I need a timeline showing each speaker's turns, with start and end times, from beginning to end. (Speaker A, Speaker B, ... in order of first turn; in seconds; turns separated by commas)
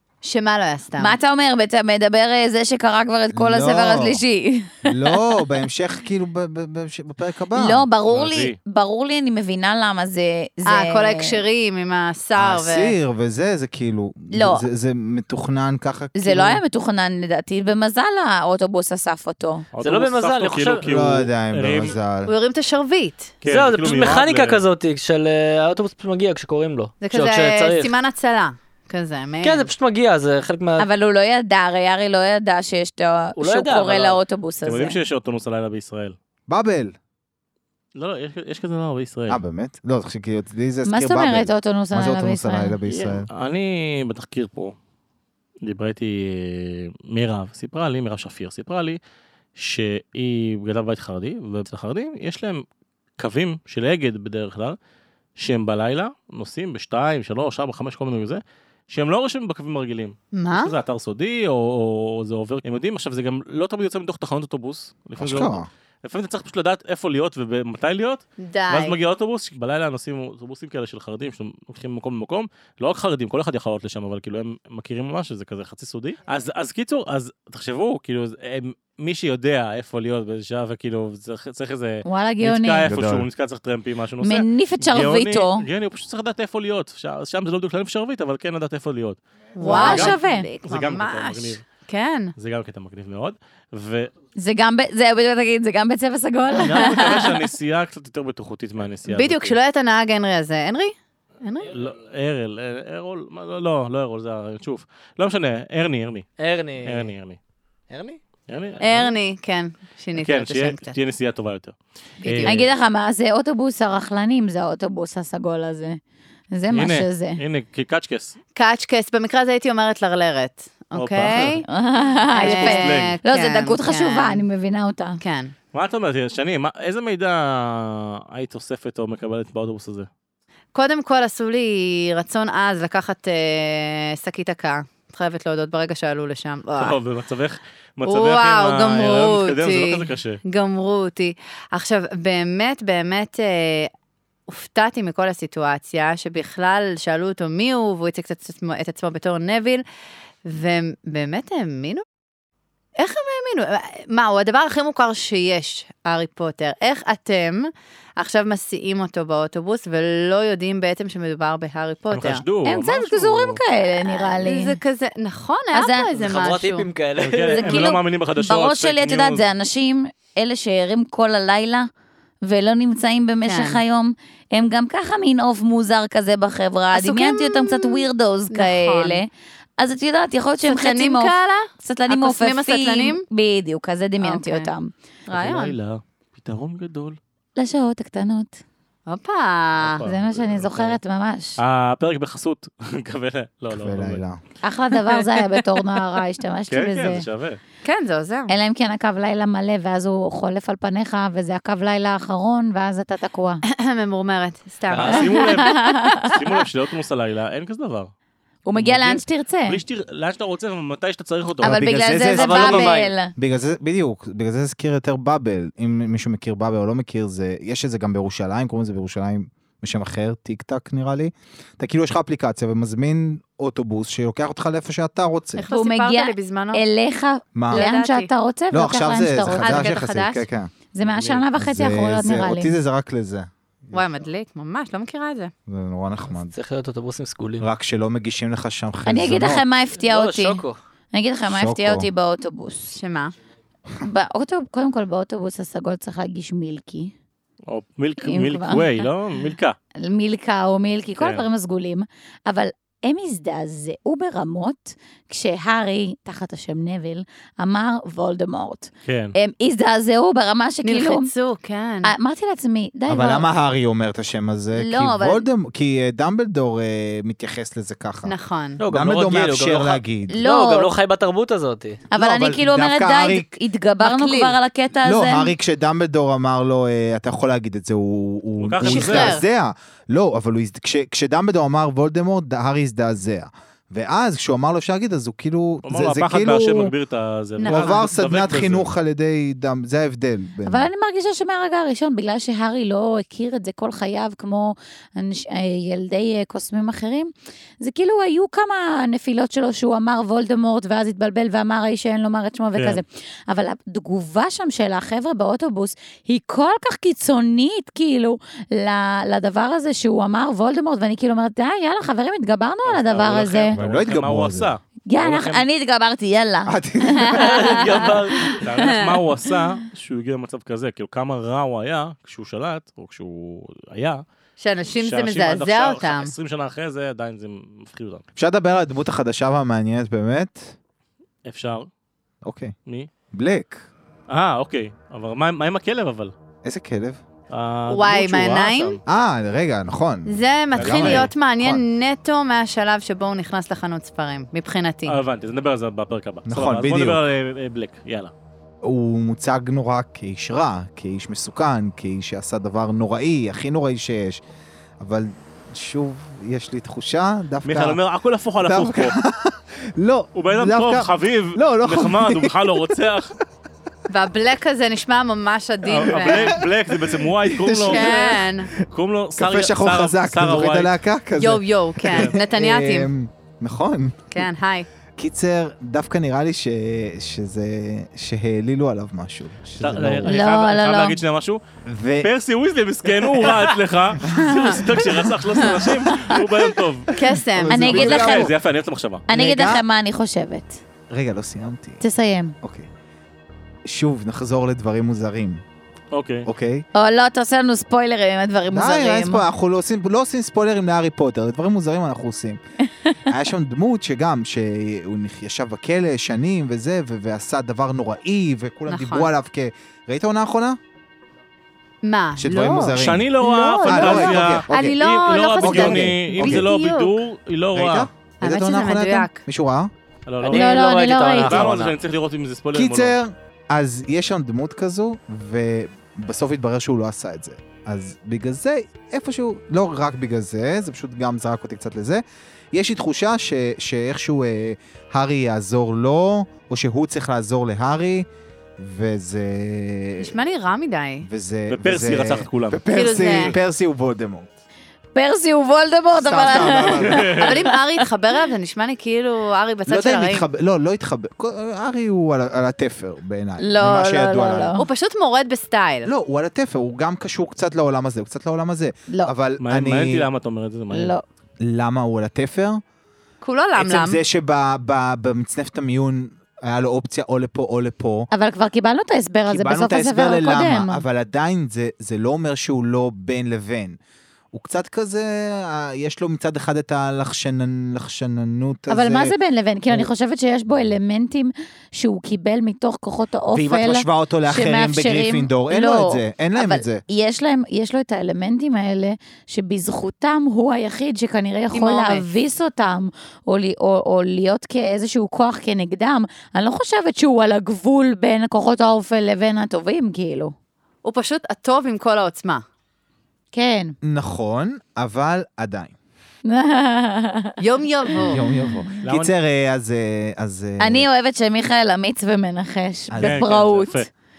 Speaker A: 0.2-1.2, Speaker B: 1.0-5.2, Speaker C: 3.3-4.2, Speaker C: 4.8-7.9, Speaker B: 7.5-11.4, Speaker D: 8.1-8.6, Speaker A: 10.7-12.9, Speaker C: 12.4-16.6, Speaker B: 14.3-14.6, Speaker B: 16.2-19.7, Speaker D: 19.8-22.0, Speaker E: 19.8-20.9, Speaker C: 20.8-22.3, Speaker A: 22.2-23.3, Speaker D: 23.4-24.6, Speaker E: 23.4-28.0, Speaker A: 27.0-29.7, Speaker E: 29.4-30.9, Speaker B: 30.8-35.0, Speaker E: 33.4-34.2, Speaker D: 34.6-36.2, Speaker C: 36.5-37.0, Speaker D: 38.0-39.4, Speaker C: 39.3-43.3, Speaker B: 40.9-42.8, Speaker D: 42.9-44.8, Speaker D: 45.6-49.0, Speaker D: 49.6-52.6, Speaker D: 53.2-54.8, Speaker D: 55.4-91.6, Speaker A: 60.3-60.7, Speaker C: 65.2-65.7, Speaker A: 68.4-69.0, Speaker B: 82.1-82.9, Speaker C: 82.8-83.3, Speaker B: 84.2-85.7, Speaker A: 89.6-92.3, Speaker B: 89.6-90.5, Speaker D: 92.4-94.1, Speaker B: 94.4-97.4, Speaker D: 96.5-99.6, Speaker A: 99.1-101.7, Speaker D: 101.7-106.3, Speaker E: 106.4-107.1, Speaker D: 106.8-107.4, Speaker E: 107.9-108.2, Speaker D: 108.5-109.1, Speaker A: 108.8-111.0, Speaker D: 110.2-112.7, Speaker A: 112.2-112.7, Speaker B: 112.4-116.0, Speaker B: 116.5-117.4, Speaker D: 116.7-118.4, Speaker A: 118.6-121.7, Speaker D: 121.0-121.6, Speaker B: 121.6-125.2, Speaker A: 122.3-124.4, Speaker D: 122.4-123.2, Speaker A: 125.2-125.5, Speaker D: 125.7-130.1, Speaker A: 130.8-137.0, Speaker D: 136.8-140.4, Speaker A: 138.1-143.9, Speaker A: 144.5-149.8, Speaker A: 150.4-152.0, Speaker A: 153.0-162.4, Speaker D: 162.1-163.6, Speaker B: 162.7-164.8, Speaker A: 164.0-166.9, Speaker B: 165.7-166.1, Speaker E: 166.2-167.8, Speaker D: 167.2-169.4, Speaker B: 167.5-171.9, Speaker B: 172.4-184.9, Speaker A: 173.4-173.8, Speaker A: 176.9-179.2, Speaker A: 180.6-183.2, Speaker A: 184.2-184.7, Speaker D: 185.3-187.2, Speaker A: 185.3-185.8, Speaker B: 187.6-188.6, Speaker A: 189.1-190.0, Speaker D: 189.8-191.0, Speaker B: 190.0-191.6, Speaker D: 191.6-194.2, Speaker C: 193.7-194.4, Speaker B: 194.6-197.2, Speaker D: 196.7-197.6, Speaker A: 197.8-198.5, Speaker B: 198.5-203.6, Speaker A: 203.7-206.4, Speaker D: 204.9-208.1, Speaker B: 205.1-206.3, Speaker B: 208.7-209.8, Speaker D: 208.8-211.9, Speaker B: 211.6-213.3, Speaker C: 211.6-225.7, Speaker E: 212.3-213.1, Speaker A: 225.6-226.8, Speaker B: 225.7-229.9, Speaker C: 227.6-227.9, Speaker A: 227.7-228.3, Speaker C: 228.7-230.7, Speaker A: 229.6-230.4, Speaker B: 230.9-232.8, Speaker D: 231.0-231.5, Speaker C: 231.6-234.1, Speaker A: 233.9-235.5, Speaker C: 235.7-236.6, Speaker E: 236.4-237.7, Speaker C: 237.6-239.7, Speaker B: 239.1-243.0, Speaker E: 240.0-240.8, Speaker C: 241.4-242.1, Speaker A: 242.9-243.3, Speaker B: 244.0-247.1, Speaker D: 247.7-249.8, Speaker B: 248.2-248.9, Speaker B: 250.0-261.3, Speaker D: 251.2-251.5, Speaker D: 259.1-259.4, Speaker A: 260.8-262.1, Speaker B: 262.1-263.5, Speaker C: 263.1-268.4, Speaker B: 264.8-265.4, Speaker A: 268.2-268.8, Speaker E: 268.8-272.0, Speaker C: 268.9-270.4, Speaker B: 270.3-270.9, Speaker B: 272.1-275.5, Speaker C: 272.2-273.5, Speaker A: 274.0-274.6, Speaker C: 275.0-286.9, Speaker D: 278.6-279.4, Speaker A: 278.8-279.4, Speaker D: 285.9-288.9, Speaker A: 287.6-288.1, Speaker C: 287.6-290.9, Speaker B: 290.7-313.8, Speaker D: 302.8-303.0, Speaker D: 312.9-315.7, Speaker C: 313.7-314.7, Speaker B: 315.1-318.6, Speaker C: 316.7-317.6, Speaker A: 317.3-317.7, Speaker D: 317.4-324.2, Speaker A: 324.6-326.3, Speaker D: 325.0-328.2, Speaker C: 328.4-330.8, Speaker D: 331.4-331.9, Speaker C: 332.4-332.8, Speaker C: 333.3-333.9, Speaker D: 334.3-336.3, Speaker C: 336.6-337.2, Speaker D: 337.5-339.0, Speaker A: 337.9-339.0, Speaker C: 339.1-341.8, Speaker A: 340.3-345.2, Speaker D: 340.8-341.3, Speaker D: 345.1-348.3, Speaker C: 346.5-347.2, Speaker C: 348.8-354.4, Speaker C: 355.0-358.0, Speaker D: 357.6-359.2, Speaker C: 358.6-363.0, Speaker D: 360.3-363.3, Speaker A: 364.1-366.6, Speaker D: 365.9-368.2, Speaker C: 366.1-368.7, Speaker A: 367.9-368.7, Speaker D: 368.9-371.0, Speaker C: 369.4-374.5, Speaker A: 371.4-373.1, Speaker A: 374.3-374.9, Speaker C: 375.2-380.4, Speaker D: 379.8-381.6, Speaker B: 380.2-381.2, Speaker C: 381.9-382.3, Speaker D: 382.2-387.1, Speaker C: 384.2-385.8, Speaker B: 386.1-386.4, Speaker A: 387.1-387.9, Speaker C: 387.2-388.5, Speaker B: 387.7-388.5, Speaker D: 387.7-389.2, Speaker B: 389.3-390.8, Speaker C: 389.3-389.8, Speaker C: 391.1-392.0, Speaker B: 392.0-392.6, Speaker C: 392.6-392.9, Speaker C: 393.9-395.6, Speaker D: 396.1-396.5, Speaker C: 396.5-396.9, Speaker B: 396.9-399.4, Speaker C: 398.7-402.6, Speaker C: 403.3-410.8, Speaker A: 408.9-409.3, Speaker A: 412.0-417.2, Speaker C: 412.4-415.0, Speaker D: 412.9-418.1, Speaker C: 415.6-416.7, Speaker C: 417.8-419.9, Speaker A: 418.4-419.4, Speaker D: 420.3-423.2, Speaker E: 420.4-421.9, Speaker B: 420.5-421.7, Speaker C: 422.7-438.3, Speaker C: 438.8-440.4, Speaker A: 440.2-441.3, Speaker C: 441.2-444.5, Speaker D: 441.7-442.8, Speaker A: 442.9-443.6, Speaker B: 445.1-447.7, Speaker C: 446.2-447.3, Speaker D: 447.0-447.5, Speaker A: 447.4-450.5, Speaker C: 449.9-454.8, Speaker B: 453.6-454.9, Speaker A: 454.8-456.1, Speaker C: 456.1-460.3, Speaker D: 459.6-461.1, Speaker B: 460.9-461.2, Speaker C: 461.6-462.8, Speaker A: 463.4-464.2, Speaker C: 463.8-468.3, Speaker B: 468.3-471.0, Speaker C: 469.5-474.0, Speaker C: 474.5-479.4, Speaker B: 478.9-500.5, Speaker C: 483.5-487.0, Speaker A: 491.7-492.3, Speaker A: 501.0-502.6, Speaker B: 503.5-504.0, Speaker C: 504.0-505.9, Speaker B: 506.4-507.6, Speaker A: 507.6-508.4, Speaker B: 508.1-508.8, Speaker C: 508.2-511.1, Speaker D: 509.0-509.3, Speaker B: 510.8-514.1, Speaker C: 513.1-513.5, Speaker D: 513.2-514.1